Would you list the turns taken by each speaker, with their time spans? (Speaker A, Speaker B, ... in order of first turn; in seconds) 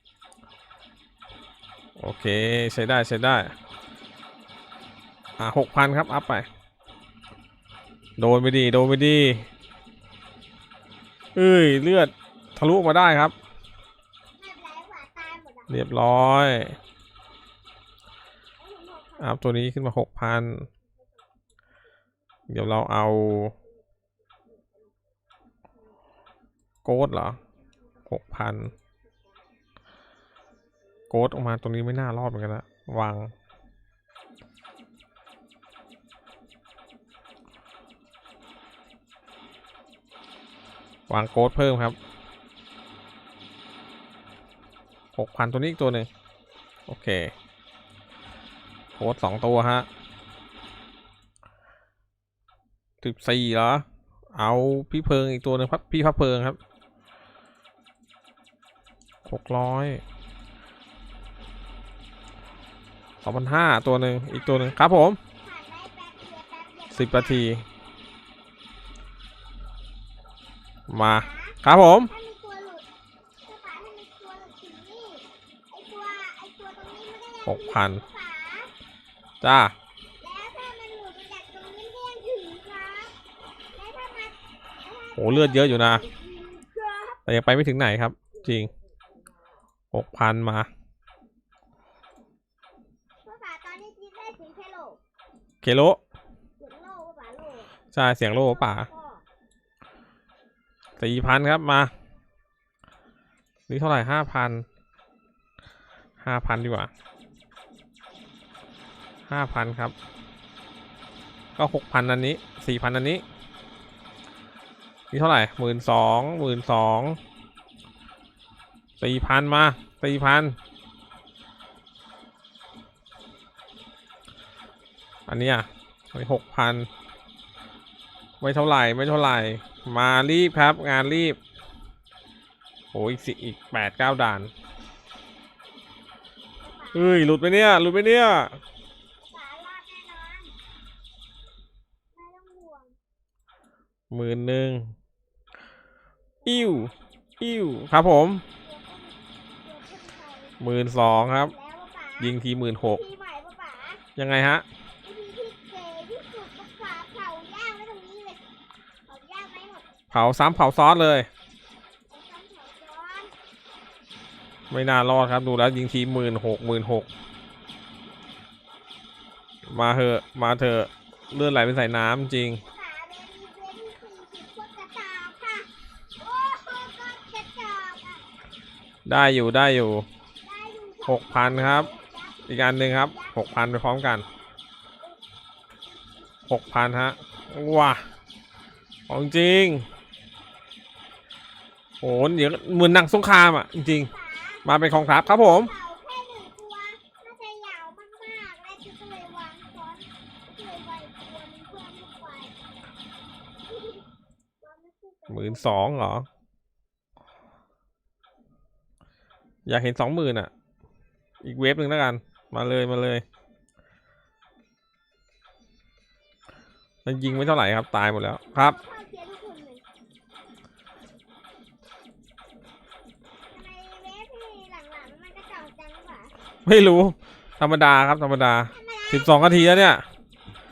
Speaker A: 2.0-3.5, 5.4-6.5, 8.2-9.4, 11.3-13.3, 15.7-16.8, 19.2-20.7, 22.5-23.5, 26.8-27.4, 28.1-28.7, 31.1-33.3, 41.1-42.0, 45.1-46.1, 46.9-47.3, 49.0-49.9, 53.0-56.6, 59.2-60.0, 63.2-65.2, 66.9-67.6, 70.9-72.1, 77.5-78.0, 79.4-79.7, 85.2-86.0, 87.2-88.7, 89.9-90.7, 95.6-96.0, 97.9-98.9, 101.0-101.9, 103.7-104.7, 106.2-106.9, 109.3-109.9, 111.6-113.2, 115.1-117.2, 119.0-120.5, 125.3-126.9, 128.4-131.4, 132.9-134.5, 136.9-138.6, 144.1-144.9, 146.4-148.4, 150.6-151.5, 152.2-153.0, 154.2-154.6, 160.1-161.3, 164.7-167.1, 169.7-172.6, 179.1-180.1, 181.1-181.9, 182.5-184.2, 186.5-188.0, 189.1-189.8, 192.0-194.1, 194.6-195.7, 205.3-206.2, 209.7-210.5, 211.4-213.2, 217.0-218.8, 226.7-230.0
Speaker B: 14.4-15.7, 18.6-19.5, 64.3-64.8, 65.4-67.5, 71.0-72.9, 73.5-78.7, 80.2-83.1, 83.7-87.2, 88.3-88.7, 93.2-95.0, 96.6-97.7, 98.3-99.2, 136.6-137.3, 139.2-140.5, 142.1-142.9, 146.4-146.9, 148.6-150.6, 151.4-154.0, 155.0-158.4, 159.1-159.9, 162.1-163.3, 172.6-178.2, 180.4-183.7, 194.0-202.5, 203.7-204.0, 204.6-206.0, 217.1-217.7, 218.5-219.8, 223.5-226.3, 228.7-229.7